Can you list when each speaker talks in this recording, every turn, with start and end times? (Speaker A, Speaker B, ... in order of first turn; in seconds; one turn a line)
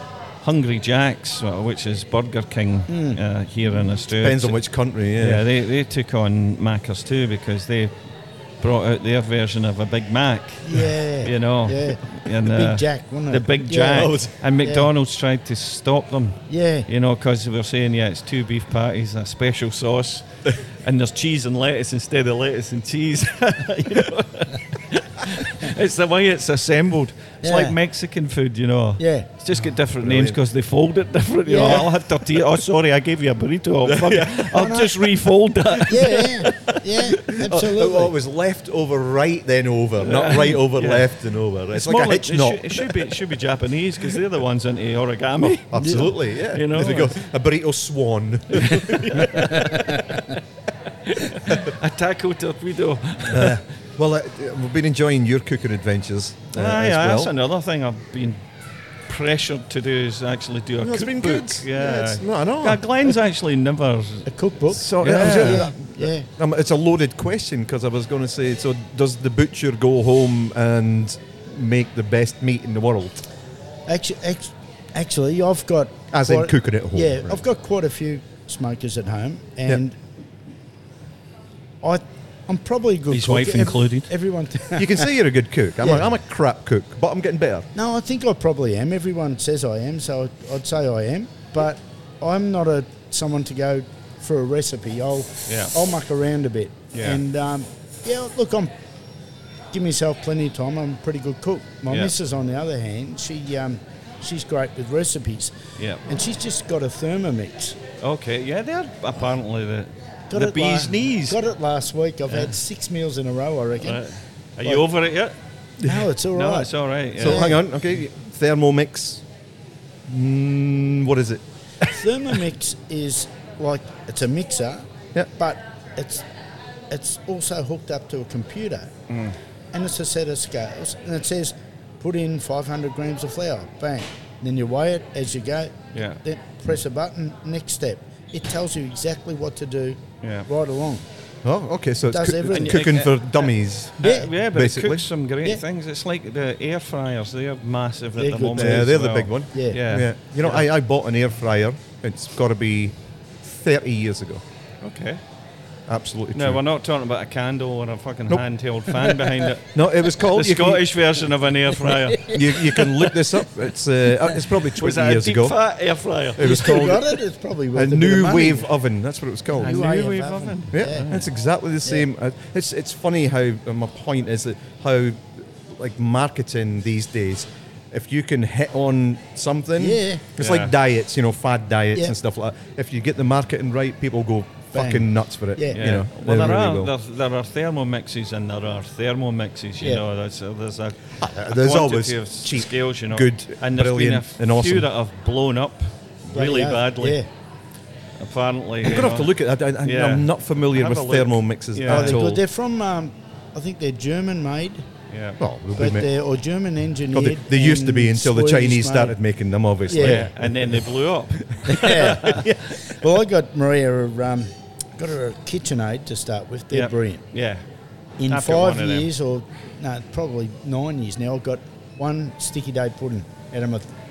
Speaker A: 0.4-4.6
Speaker B: 2.9-3.2
Speaker C: 4.1-5.4
Speaker A: 5.2-7.9
Speaker A: 8.6-36.8
Speaker B: 10.6-14.9
Speaker C: 13.9-14.3
Speaker B: 16.5-16.9
Speaker B: 27.4-27.8
Speaker B: 29.0-29.3
Speaker C: 29.8-30.4
Speaker B: 31.4-31.9
Speaker C: 33.8-34.7
Speaker B: 34.5-35.0
Speaker B: 35.9-38.1
Speaker C: 37.3-43.1
Speaker A: 40.0-41.1
Speaker A: 41.7-47.2
Speaker C: 45.4-49.3
Speaker B: 45.8-46.1
Speaker A: 48.5-50.3
Speaker B: 49.3-49.8
Speaker A: 51.0-53.6
Speaker C: 53.3-57.3
Speaker A: 56.5-58.4
Speaker A: 59.1-65.7
Speaker C: 60.8-63.1
Speaker B: 64.3-66.3
Speaker C: 64.7-73.2
Speaker B: 73.9-80.0
Speaker C: 76.1-77.4
Speaker B: 81.8-85.1
Speaker A: 83.1-84.1
Speaker C: 84.7-87.7
Speaker B: 85.8-86.1
Speaker B: 87.7-98.7
Speaker A: 95.5-95.7
Speaker A: 96.9-97.2
Speaker B: 99.7-105.5
Speaker A: 101.9-102.1
Speaker A: 105.8-106.1
Speaker B: 106.1-107.8
Speaker A: 108.0-111.4
Speaker B: 110.3-114.0
Speaker A: 112.3-112.5
Speaker A: 113.8-115.3
Speaker C: 115.8-116.1
Speaker B: 115.8-117.6
Speaker A: 116.3-117.5
Speaker C: 117.2-119.2
Speaker C: 120.0-121.9
Speaker B: 121.9-124.8
Speaker B: 125.4-126.2
Speaker B: 126.9-128.9
Speaker A: 129.1-129.3
Speaker B: 129.7-141.0
Speaker A: 135.9-136.2
Speaker A: 140.2-140.5
Speaker C: 141.4-145.1
Speaker B: 142.1-142.9
Speaker A: 142.5-150.7
Speaker B: 144.0-144.3
Speaker B: 148.2-148.9
Speaker C: 148.6-154.4
Speaker B: 149.5-149.8
Speaker A: 154.8-155.2
Speaker C: 155.9-156.6
Speaker A: 156.3-163.1
Speaker C: 159.7-160.8
Speaker C: 162.2-165.6
Speaker A: 164.7-166.8
Speaker C: 166.4-167.1
Speaker B: 166.4-168.7
Speaker C: 167.7-169.8
Speaker A: 169.6-171.3
Speaker B: 169.6-171.0
Speaker C: 170.7-186.9
Speaker B: 179.8-180.2
Speaker A: 180.4-180.7
Speaker B: 184.7-185.8
Speaker A: 185.7-197.2
Speaker B: 189.8-190.0
Speaker C: 191.2-194.9
Speaker B: 196.3-197.3
Speaker A: 198.2-202.2
Speaker C: 198.8-202.4
Speaker B: 201.8-204.8
Speaker A: 205.1-205.4
Speaker C: 205.4-206.1
Speaker B: 205.8-209.2
Speaker C: 207.1-210.8
Speaker B: 209.9-210.3
Speaker A: 210.0-212.5
Speaker B: 211.7-217.2
Speaker C: 212.3-212.6
Speaker A: 216.7-217.6
Speaker B: 218.2-223.9
Speaker A: 218.3-219.1